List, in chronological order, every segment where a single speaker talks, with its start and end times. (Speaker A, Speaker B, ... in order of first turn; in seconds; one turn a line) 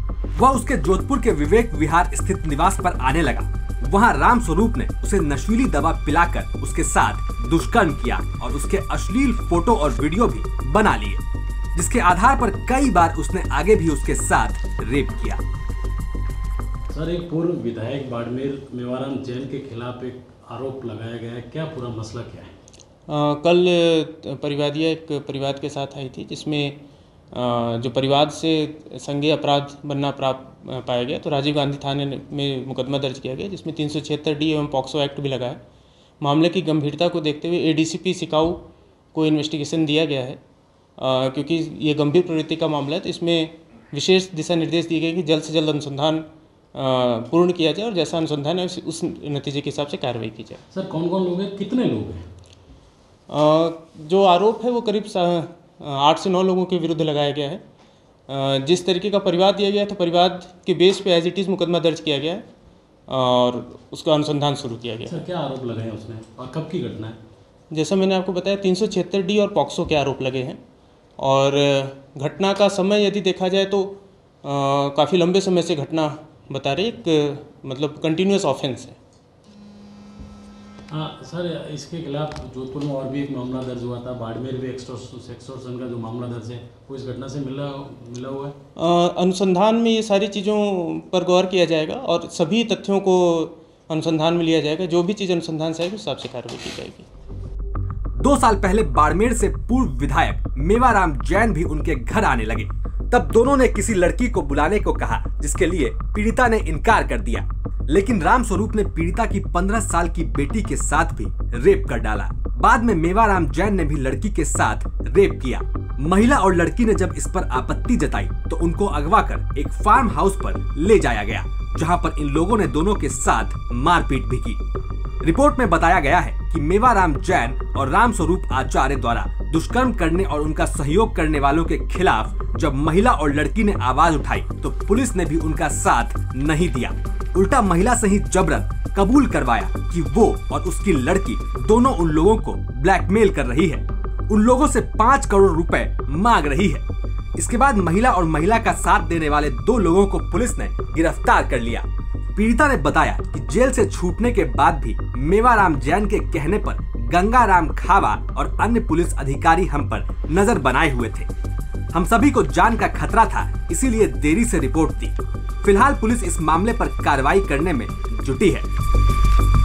Speaker A: 0.4-11.2
Speaker A: 11.8-15.4
Speaker B: 16.9-22.5
Speaker C: 23.1-35.6
Speaker C: 36.2-40.4
Speaker C: 41.0-50.6
Speaker B: 50.7-52.2
Speaker C: 53.3-57.6
Speaker C: 58.3-62.5
Speaker C: 63.1-65.3
Speaker B: 65.1-67.2
Speaker C: 67.7-70.6
Speaker C: 71.2-79.0
Speaker B: 80.9-88.5
Speaker C: 88.8-97.1
Speaker A: 98.2-124.6
Speaker A: 125.2-161.3
Speaker A: 161.9-168.7